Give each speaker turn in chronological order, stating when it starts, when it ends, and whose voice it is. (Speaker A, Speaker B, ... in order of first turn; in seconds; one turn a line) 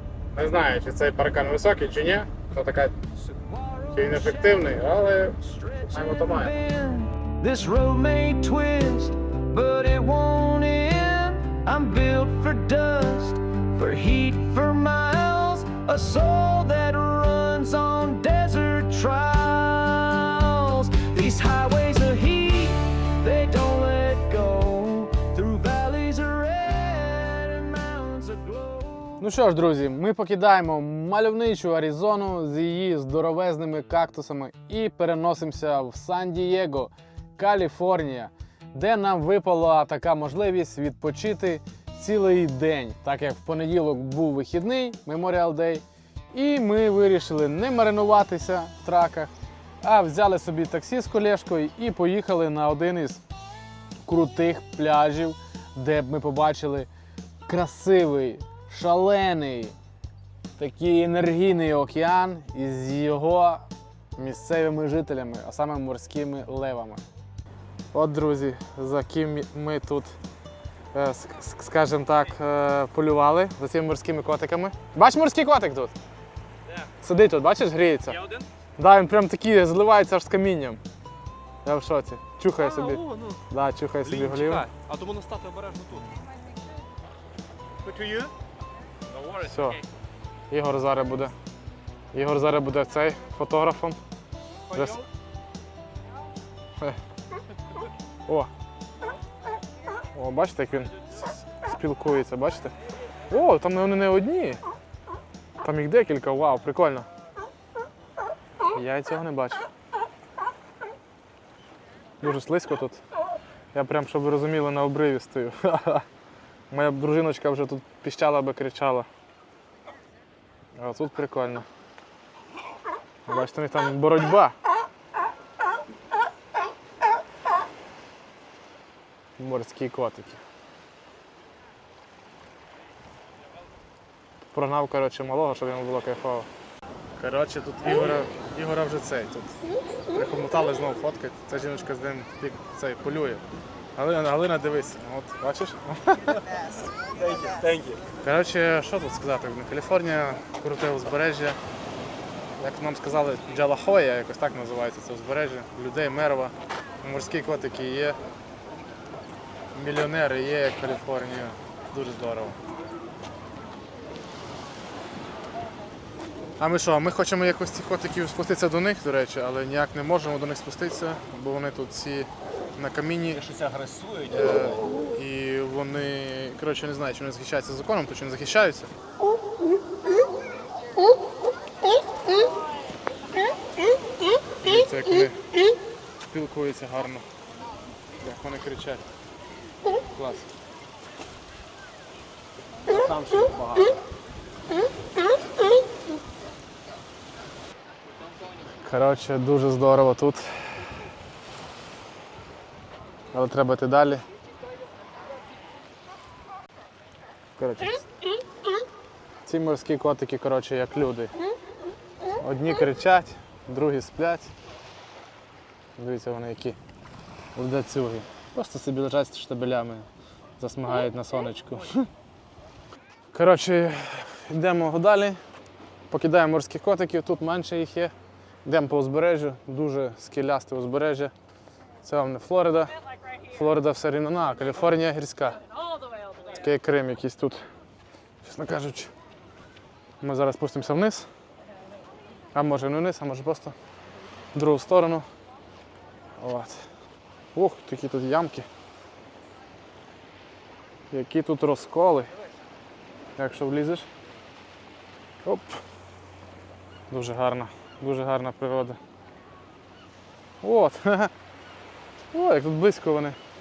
Speaker A: 0.3-2.9
Speaker B: 3.2-29.3
Speaker A: 3.9-5.3
Speaker A: 5.9-6.5
Speaker A: 29.2-53.2
Speaker A: 54.0-56.9
Speaker A: 57.5-59.8
Speaker A: 60.6-63.6
Speaker A: 64.2-67.0
Speaker A: 67.9-70.1
Speaker A: 70.9-75.9
Speaker A: 77.0-78.2
Speaker C: 78.2-78.5
Speaker A: 78.8-80.8
Speaker A: 81.6-84.7
Speaker C: 82.6-83.4
Speaker C: 84.0-86.2
Speaker C: 87.8-88.3
Speaker C: 89.1-89.8
Speaker A: 89.5-89.8
Speaker A: 90.5-91.3
Speaker A: 92.1-94.0
Speaker C: 94.7-95.0
Speaker A: 94.7-95.0
Speaker A: 100.1-102.7
Speaker A: 103.3-104.6
Speaker A: 105.6-107.1
Speaker A: 108.7-109.7
Speaker A: 112.2-113.0
Speaker A: 113.7-116.0
Speaker A: 116.7-119.1
Speaker A: 120.8-121.7
Speaker A: 123.3-124.5
Speaker A: 129.4-130.4
Speaker A: 134.5-136.5
Speaker A: 137.2-139.5
Speaker A: 140.1-143.4
Speaker A: 144.0-146.4
Speaker C: 147.2-148.0
Speaker A: 147.3-151.6
Speaker A: 152.6-158.2
Speaker A: 159.7-162.6
Speaker A: 166.6-173.4
Speaker C: 173.3-174.8
Speaker A: 174.3-178.9
Speaker A: 184.6-185.4
Speaker A: 186.3-187.2
Speaker A: 188.2-189.0
Speaker A: 190.1-190.5
Speaker C: 192.9-193.9
Speaker A: 198.8-200.4
Speaker A: 203.3-204.2
Speaker A: 207.6-208.0
Speaker A: 209.4-211.3
Speaker A: 212.4-214.5
Speaker A: 216.0-216.8
Speaker A: 217.5-220.1
Speaker A: 220.6-222.1
Speaker A: 223.3-225.4
Speaker A: 226.1-228.1
Speaker A: 228.6-231.3
Speaker A: 232.0-232.9
Speaker A: 233.5-235.6
Speaker A: 236.5-237.6
Speaker A: 238.4-239.1
Speaker A: 240.2-241.3
Speaker A: 242.5-243.7
Speaker A: 244.5-245.2
Speaker A: 246.4-246.8
Speaker A: 247.5-248.7
Speaker A: 251.1-252.3
Speaker A: 253.4-254.1
Speaker A: 255.4-255.8
Speaker A: 257.1-259.0
Speaker A: 260.6-261.3
Speaker A: 262.3-263.4